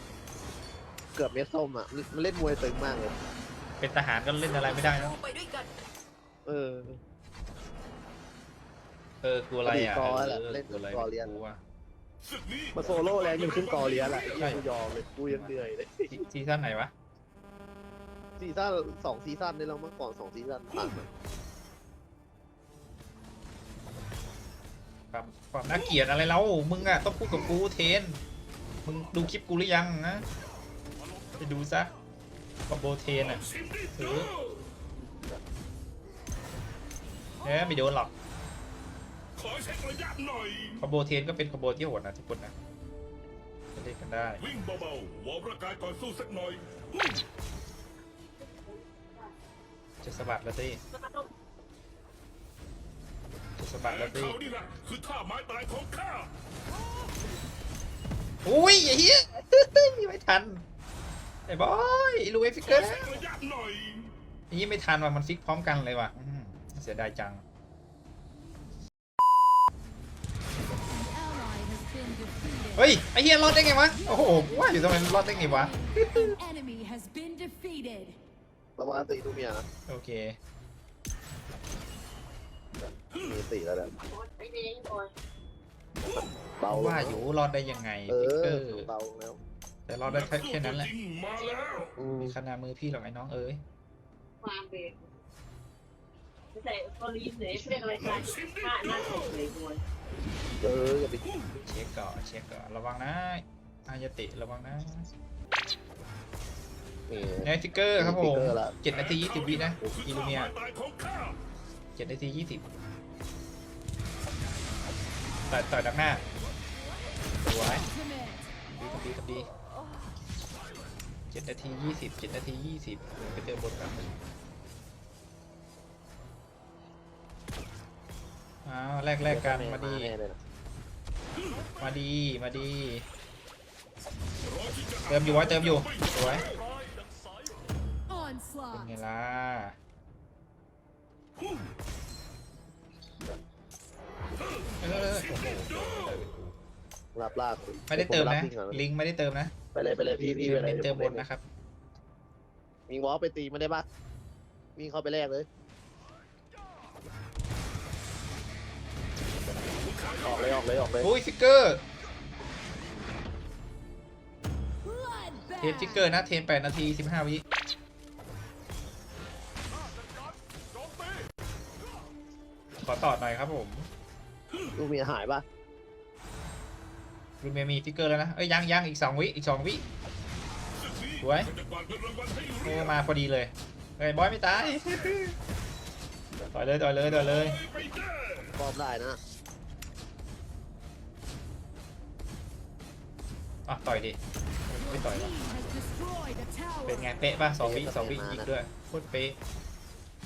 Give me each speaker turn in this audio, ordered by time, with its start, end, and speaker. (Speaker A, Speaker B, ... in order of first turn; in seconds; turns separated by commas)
Speaker A: 1.1-3.1, Speaker B: 3.8-5.2, Speaker A: 6.5-7.0, Speaker B: 9.2-11.6, Speaker A: 9.7-11.3, Speaker C: 12.3-14.4, Speaker A: 12.8-16.2, Speaker B: 14.4-14.6, Speaker B: 15.3-16.9, Speaker A: 18.4-21.1, Speaker B: 25.1-28.2, Speaker B: 28.8-30.2, Speaker B: 31.4-31.9, Speaker B: 32.7-33.4, Speaker C: 33.3-34.5, Speaker B: 34.0-34.3, Speaker B: 37.4-38.1, Speaker C: 39.4-40.8, Speaker B: 40.8-42.5, Speaker B: 43.7-44.4, Speaker C: 44.4-47.2, Speaker B: 50.0-50.8, Speaker B: 53.6-54.4, Speaker C: 53.9-56.3, Speaker B: 58.4-60.6, Speaker B: 61.5-63.2, Speaker C: 62.6-64.1, Speaker B: 64.5-67.4, Speaker D: 70.9-72.9, Speaker B: 72.8-76.4, Speaker D: 73.9-78.2, Speaker A: 78.8-79.7, Speaker B: 79.9-80.4, Speaker A: 83.2-83.9, Speaker E: 84.2-85.1, Speaker A: 86.2-87.2, Speaker B: 86.7-88.9, Speaker A: 88.1-89.4, Speaker B: 89.9-90.9, Speaker C: 90.1-91.9, Speaker A: 92.0-92.3, Speaker B: 92.2-93.6, Speaker E: 94.4-95.0, Speaker E: 96.6-99.8, Speaker C: 97.9-99.3, Speaker A: 100.6-101.2, Speaker B: 101.5-105.1, Speaker A: 107.1-108.8, Speaker B: 107.4-110.5, Speaker C: 108.9-111.3, Speaker B: 112.0-112.7, Speaker B: 115.5-116.2, Speaker B: 117.4-117.8, Speaker D: 117.8-118.4, Speaker B: 118.7-119.5, Speaker B: 121.3-124.2, Speaker B: 128.7-130.1, Speaker A: 129.2-130.4, Speaker B: 131.8-133.0, Speaker C: 134.6-136.6, Speaker B: 135.0-136.5, Speaker D: 138.1-138.8, Speaker B: 138.7-139.8, Speaker B: 144.8-146.5, Speaker A: 147.2-148.8, Speaker B: 147.9-149.5, Speaker A: 149.7-151.2, Speaker B: 150.4-151.4, Speaker A: 152.9-153.8, Speaker A: 154.8-155.5, Speaker A: 160.2-161.1, Speaker B: 161.0-161.8, Speaker D: 164.8-166.1, Speaker B: 165.6-167.4, Speaker B: 172.8-173.9, Speaker A: 174.8-175.4, Speaker B: 177.4-179.8, Speaker C: 180.8-182.9, Speaker B: 181.2-181.5, Speaker B: 182.6-185.3, Speaker B: 186.5-187.6, Speaker C: 187.2-188.5, Speaker A: 188.6-189.2, Speaker B: 193.7-195.3, Speaker D: 194.8-197.0, Speaker B: 196.8-199.4, Speaker A: 197.6-198.5